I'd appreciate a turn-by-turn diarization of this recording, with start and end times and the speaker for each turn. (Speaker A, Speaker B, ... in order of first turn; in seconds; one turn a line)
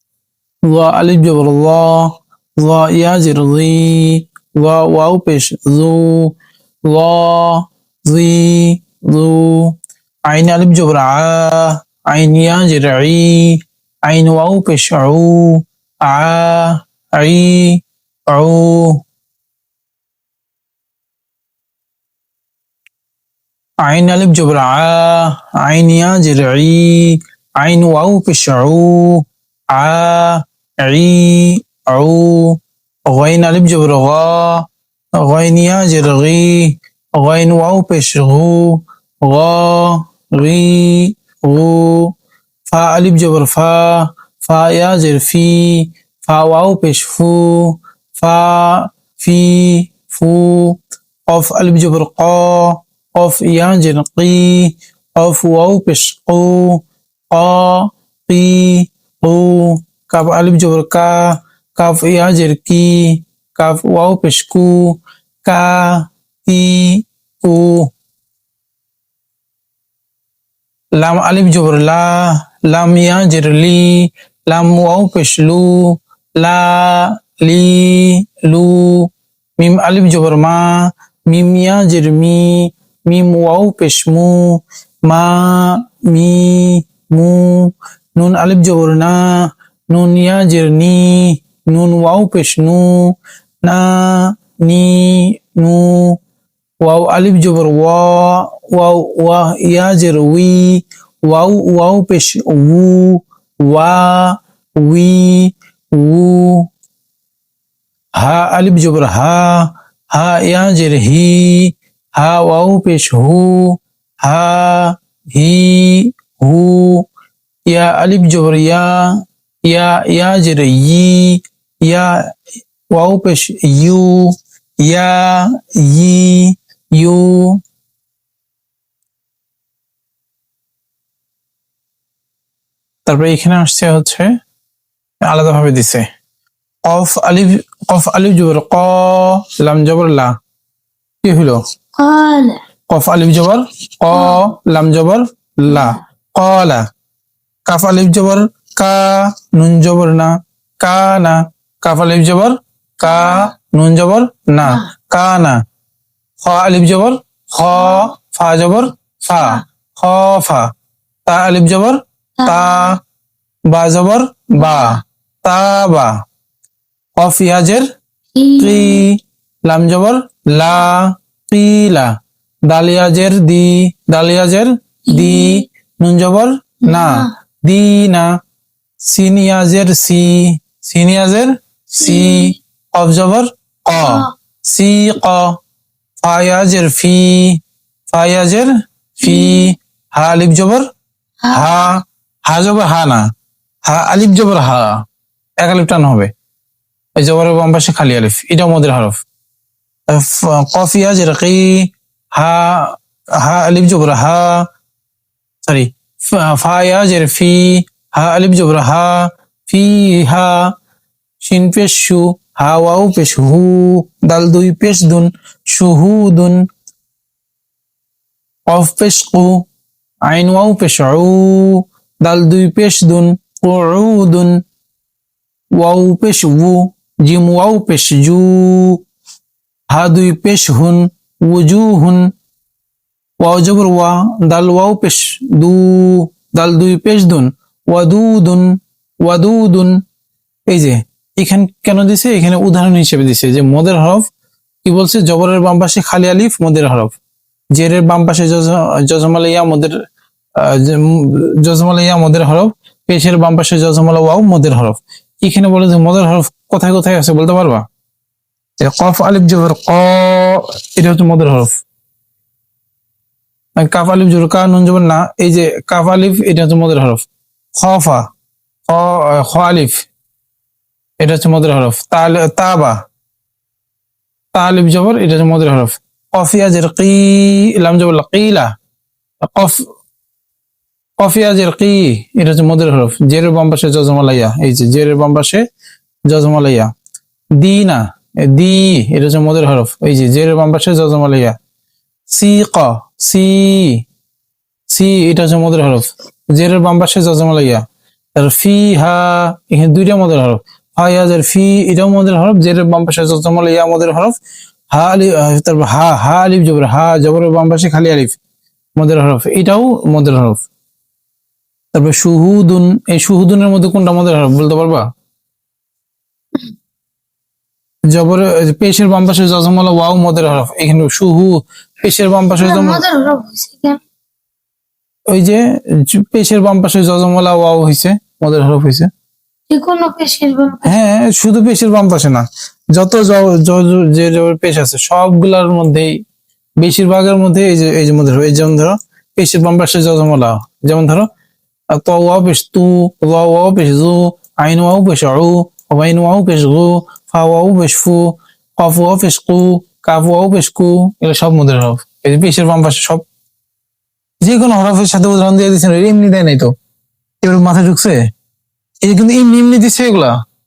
Speaker A: 0.7-9.8
Speaker A: 10.3-19.0
Speaker A: 23.8-34.7
Speaker A: 35.2-42.1
Speaker A: 42.7-67.9
Speaker A: 71.0-96.2
Speaker A: 96.8-106.7
Speaker A: 108.2-117.1
Speaker A: 117.7-122.3
Speaker A: 122.9-127.6
Speaker A: 133.1-134.3
Speaker A: 135.3-136.1
Speaker A: 136.8-140.3
Speaker A: 141.2-141.6
Speaker B: 142.0-142.6
Speaker A: 142.9-146.8
Speaker B: 144.1-144.4
Speaker A: 147.7-155.6
Speaker B: 153.0-153.5
Speaker A: 156.4-160.7
Speaker A: 161.3-163.0
Speaker B: 162.4-162.9
Speaker A: 163.7-166.2
Speaker B: 164.6-165.0
Speaker A: 167.2-167.9
Speaker B: 168.3-169.0
Speaker A: 168.6-172.2
Speaker A: 172.7-178.4
Speaker B: 175.1-175.6
Speaker B: 176.9-177.3
Speaker A: 179.1-185.6
Speaker B: 182.0-182.6
Speaker B: 183.9-184.3
Speaker A: 186.2-187.6
Speaker A: 188.1-190.9
Speaker B: 189.2-189.7
Speaker B: 191.4-191.9
Speaker A: 191.5-193.3
Speaker A: 193.9-195.0
Speaker A: 195.6-196.3
Speaker A: 197.2-199.2
Speaker A: 200.1-204.7
Speaker A: 205.7-210.7
Speaker A: 211.4-216.6
Speaker A: 218.7-219.7
Speaker A: 220.3-224.6
Speaker A: 225.8-229.0
Speaker A: 229.9-232.3
Speaker A: 233.4-239.9
Speaker A: 240.7-244.3
Speaker A: 244.8-247.2
Speaker A: 247.7-250.0
Speaker A: 250.6-257.9
Speaker A: 258.8-261.7
Speaker A: 263.8-267.3
Speaker A: 267.8-268.2
Speaker A: 268.9-270.1
Speaker A: 271.2-273.0
Speaker A: 274.6-278.7
Speaker A: 279.5-279.8
Speaker A: 281.2-285.6
Speaker A: 286.3-286.9
Speaker A: 287.6-291.6
Speaker A: 292.3-294.1
Speaker A: 294.9-297.9
Speaker A: 298.4-304.4
Speaker A: 304.9-308.4
Speaker A: 309.0-310.6
Speaker A: 311.9-315.1
Speaker A: 318.1-323.0
Speaker B: 322.6-324.0
Speaker A: 325.3-329.1
Speaker B: 329.7-331.0
Speaker A: 330.9-336.2
Speaker A: 336.8-341.3
Speaker A: 341.9-353.2
Speaker A: 354.4-356.7
Speaker A: 357.4-358.2
Speaker A: 359.0-360.4